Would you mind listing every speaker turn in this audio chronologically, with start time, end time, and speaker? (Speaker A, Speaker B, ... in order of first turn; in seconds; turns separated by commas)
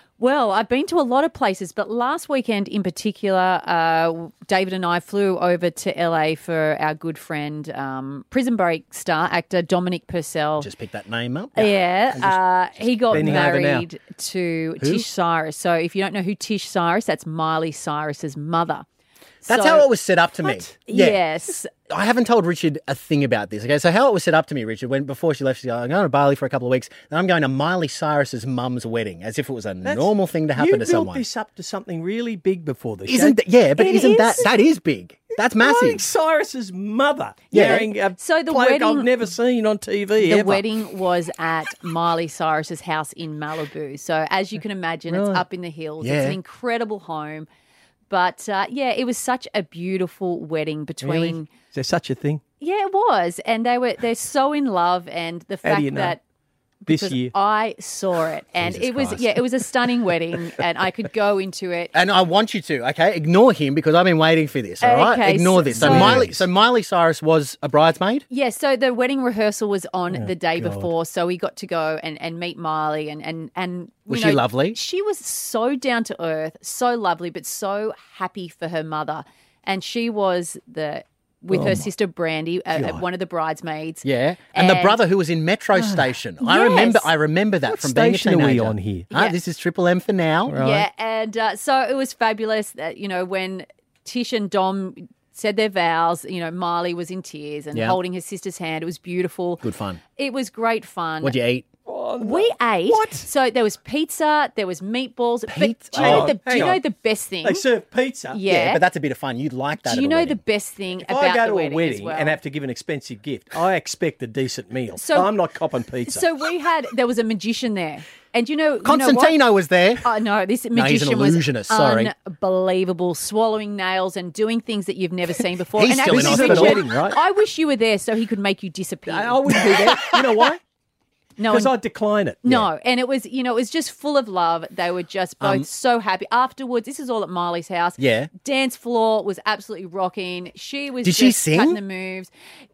Speaker A: 0.2-10.7, Speaker B: 10.6-13.5, Speaker A: 11.6-18.9, Speaker C: 13.1-13.9, Speaker B: 14.8-15.1, Speaker A: 19.4-19.9, Speaker B: 19.5-21.2, Speaker A: 20.4-21.7, Speaker B: 21.8-31.2, Speaker C: 29.8-33.4, Speaker B: 33.1-36.0, Speaker A: 33.8-34.5, Speaker C: 35.6-40.6, Speaker B: 37.5-37.9, Speaker A: 37.5-39.1, Speaker A: 40.2-47.5, Speaker C: 45.1-45.4, Speaker B: 46.0-46.4, Speaker A: 48.1-51.5, Speaker C: 51.0-52.4, Speaker A: 52.6-56.2, Speaker C: 55.6-56.2, Speaker A: 56.9-61.9, Speaker C: 56.9-57.3, Speaker B: 58.6-59.4, Speaker B: 61.9-68.2, Speaker A: 64.8-66.3, Speaker C: 65.7-66.5, Speaker A: 68.3-85.0, Speaker C: 70.1-70.9, Speaker B: 74.1-74.8, Speaker C: 81.5-81.9, Speaker C: 82.8-83.0, Speaker B: 84.0-90.6, Speaker A: 86.4-87.1, Speaker C: 87.7-89.1, Speaker C: 90.5-90.9, Speaker A: 90.6-99.6, Speaker B: 97.7-98.0, Speaker B: 99.6-100.0, Speaker A: 100.2-101.4, Speaker B: 101.2-101.7, Speaker C: 101.9-103.3, Speaker A: 102.2-107.6, Speaker B: 105.5-106.7, Speaker C: 106.0-106.8, Speaker C: 107.4-108.4, Speaker A: 108.3-108.8, Speaker B: 108.5-110.4, Speaker A: 109.8-112.4, Speaker C: 111.0-116.3, Speaker A: 115.0-115.3, Speaker A: 116.1-119.4, Speaker B: 118.8-120.1, Speaker A: 120.0-129.6, Speaker B: 120.7-122.1, Speaker B: 125.8-126.8, Speaker C: 126.0-127.2, Speaker C: 129.1-130.6, Speaker B: 129.7-130.2, Speaker A: 131.4-131.7, Speaker C: 131.5-132.4, Speaker A: 132.4-142.3, Speaker B: 135.4-135.7, Speaker B: 138.0-138.3, Speaker B: 141.0-141.8